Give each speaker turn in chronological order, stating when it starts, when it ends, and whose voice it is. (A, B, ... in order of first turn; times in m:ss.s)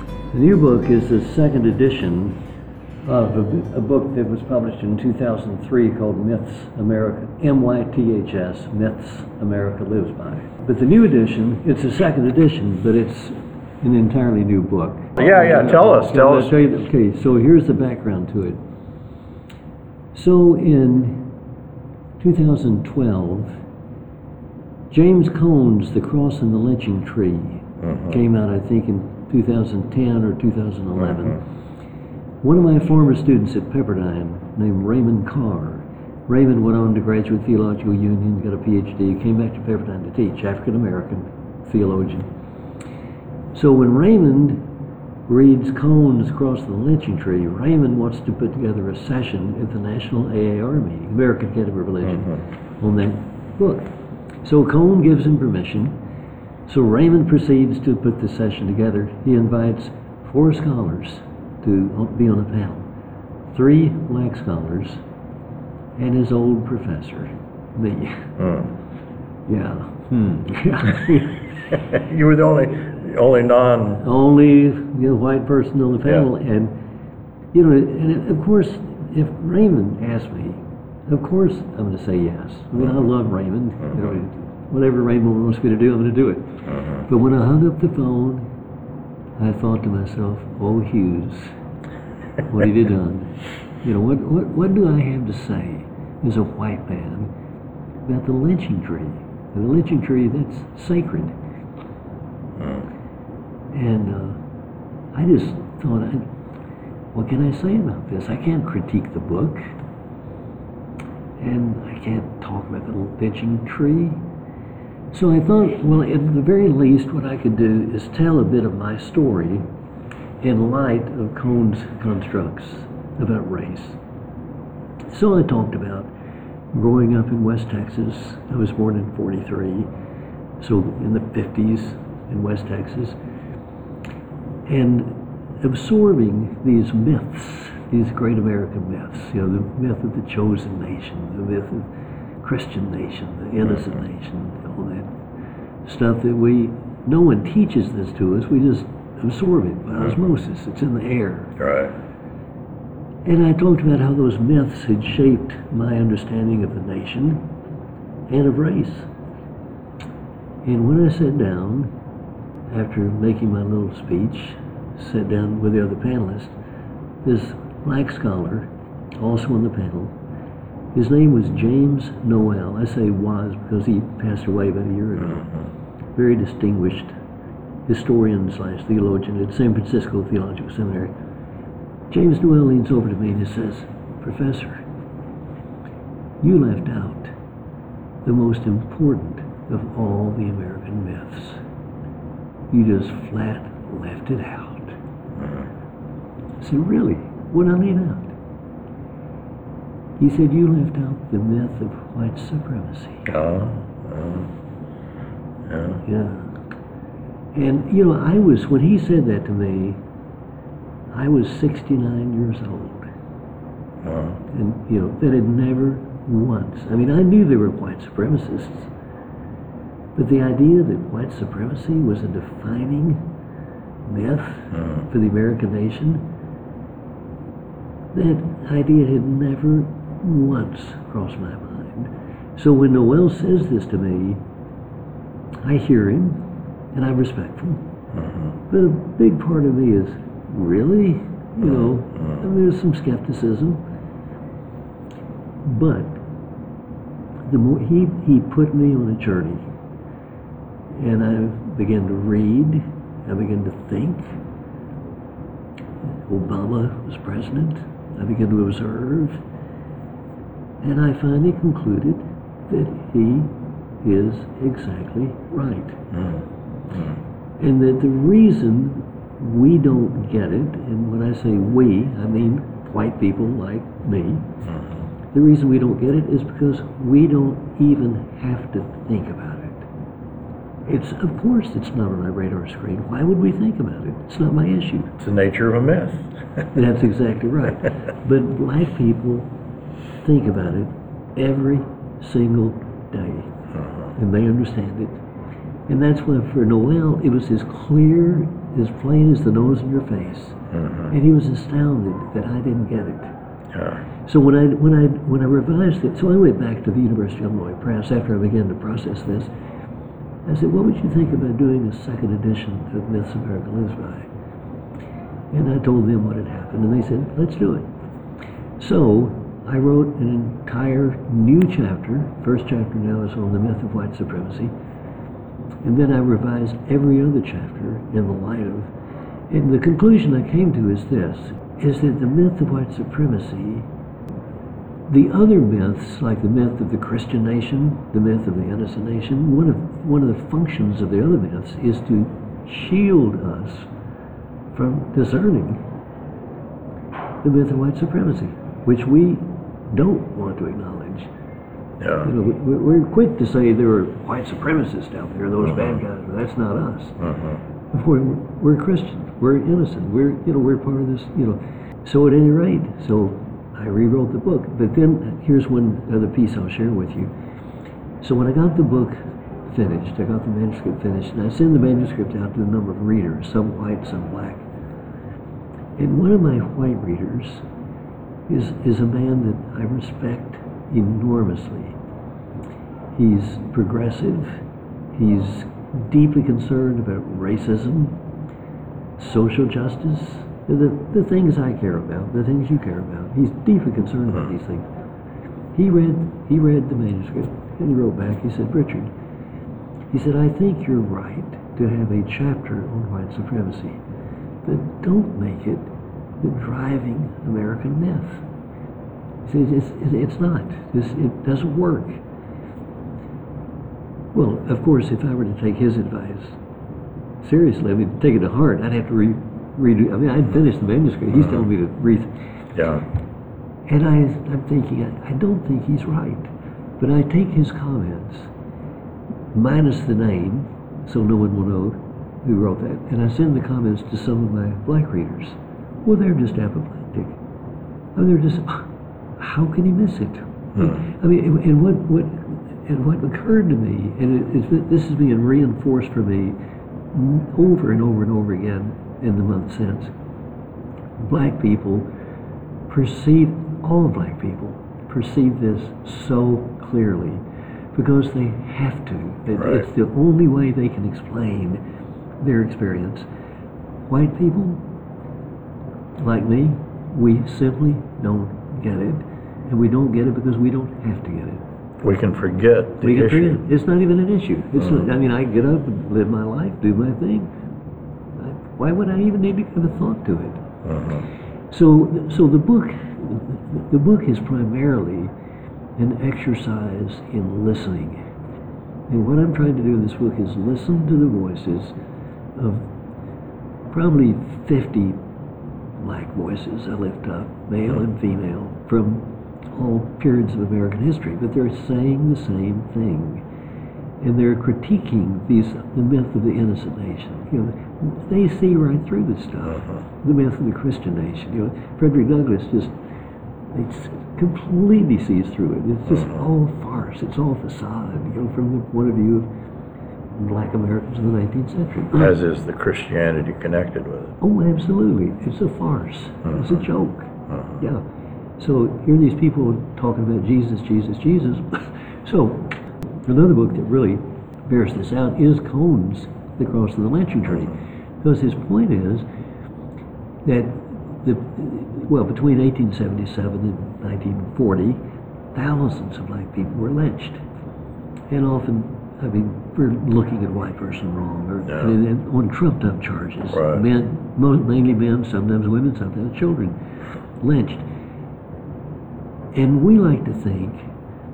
0:00.3-0:02.4 A
0:03.0-0:18.6 A
0:15.2-0:16.6 B
0:20.1-0:21.4 A
0:22.2-0:23.6 A
0:24.9-0:31.4 A
0:27.8-0:28.2 B
0:31.0-0:31.4 B
0:32.4-0:42.3 A
0:43.5-0:44.7 A
0:45.3-0:53.9 A
0:52.0-0:52.4 B
0:54.4-0:56.0 A
0:56.7-1:02.9 A
1:03.5-1:05.0 A
1:06.0-1:08.4 A
1:08.4-1:08.7 B
1:09.5-1:11.7 A
1:11.7-1:14.0 B
1:14.0-1:16.8 A
1:17.5-1:28.5 A
1:23.9-1:24.2 B
1:26.7-1:27.1 B
1:29.4-1:31.5 A
1:32.4-1:37.3 A
1:38.0-1:41.4 A
1:42.6-1:42.9 B
1:43.7-1:44.4 A
1:45.1-1:46.3 A
1:47.1-1:49.7 A
1:51.4-1:54.2 A
1:55.1-1:59.7 A
2:00.4-2:04.0 A
2:05.1-2:06.1 A
2:06.7-2:09.9 A
2:10.6-2:13.2 A
2:14.7-2:21.9 A
2:22.4-2:25.2 A
2:23.6-2:24.0 B
2:25.8-2:31.6 A
2:31.6-2:31.9 B
2:33.2-2:37.5 A
2:38.3-2:39.1 A
2:40.6-2:41.9 A
2:42.7-2:46.5 A
2:47.2-2:50.2 A
2:51.0-2:55.6 A
2:55.3-2:55.6 B
2:56.2-2:57.1 A
2:57.9-3:01.1 A
3:02.1-3:04.8 A
3:06.4-3:07.3 A
3:08.2-3:11.6 A
3:12.7-3:15.0 A
3:15.3-3:15.7 B
3:16.6-3:18.4 A
3:20.2-3:23.3 A
3:23.3-3:24.5 B
3:25.6-3:26.0 B
3:26.0-3:26.6 A
3:27.5-3:30.0 A
3:31.1-3:33.1 A
3:34.0-3:34.4 B
3:34.5-3:38.9 A
3:40.2-3:43.3 A
3:44.1-3:46.3 A
3:44.7-3:45.1 B
3:48.1-3:54.4 A
3:55.6-3:57.8 A
3:58.1-3:58.6 B
3:58.7-4:03.8 A
4:01.6-4:02.4 B
4:05.6-4:06.2 A
4:07.5-4:09.6 A
4:10.9-4:14.4 A
4:16.3-4:19.4 A
4:20.8-4:26.0 A
4:26.1-4:27.2 B
4:27.6-4:34.6 A
4:34.6-4:35.1 B
4:35.3-4:39.9 A
4:40.9-4:45.2 A
4:45.2-4:46.7 B
4:46.7-4:49.5 A
4:50.2-4:53.6 A
4:53.7-4:54.1 B
4:54.2-4:55.2 A
4:55.9-5:03.3 A
5:00.7-5:01.1 B
5:03.7-5:04.0 B
5:04.3-5:09.5 A
5:10.5-5:14.3 A
5:15.5-5:17.9 A
5:18.8-5:24.7 A
5:25.8-5:28.9 A
5:29.5-5:33.9 A
5:35.1-5:43.9 A
5:44.7-5:45.8 A
5:47.4-5:51.3 A
5:52.0-5:52.3 B
5:52.2-5:57.2 A
5:55.6-5:56.0 B
5:57.2-5:57.6 B
5:57.9-6:07.3 A
6:08.2-6:14.7 A
6:16.0-6:17.6 A
6:18.5-6:22.0 A
6:23.1-6:24.6 A
6:25.1-6:28.2 A
6:29.2-6:34.9 A
6:35.8-6:39.1 A
6:40.1-6:44.0 A
6:44.6-6:48.4 A
6:49.4-6:52.2 A
6:54.3-6:56.6 A
6:57.4-7:02.3 A
7:01.4-7:01.6 B
7:02.8-7:03.0 B
7:03.9-7:08.5 A
7:09.5-7:17.4 A
7:18.2-7:26.6 A
7:20.8-7:21.0 B
7:27.1-7:30.1 A
7:31.2-7:32.1 A
7:32.9-7:41.8 A
7:39.6-7:39.9 B
7:42.4-7:43.3 A
7:44.1-7:44.8 A
7:46.2-7:51.6 A
7:52.0-7:53.6 B
7:53.0-7:57.5 A
7:54.8-7:55.1 B
7:58.4-8:00.6 A
8:00.8-8:01.3 B
8:01.7-8:05.3 A
8:06.0-8:08.2 A
8:09.1-8:12.0 A
8:12.6-8:12.9 A
8:13.9-8:15.2 A
8:16.0-8:23.4 A
8:24.2-8:32.9 A
8:29.7-8:30.0 B
8:33.7-8:39.5 A
8:36.1-8:36.4 B
8:40.3-8:42.4 A
8:42.2-8:44.4 B
8:44.4-8:48.0 A
8:46.5-8:46.9 B
8:47.5-8:47.8 B
8:48.6-8:59.3 A
9:00.4-9:05.0 A
9:05.5-9:07.4 A
9:08.3-9:16.8 A
9:11.6-9:11.9 B
9:13.5-9:13.8 B
9:17.4-9:17.9 A
9:19.5-9:20.9 A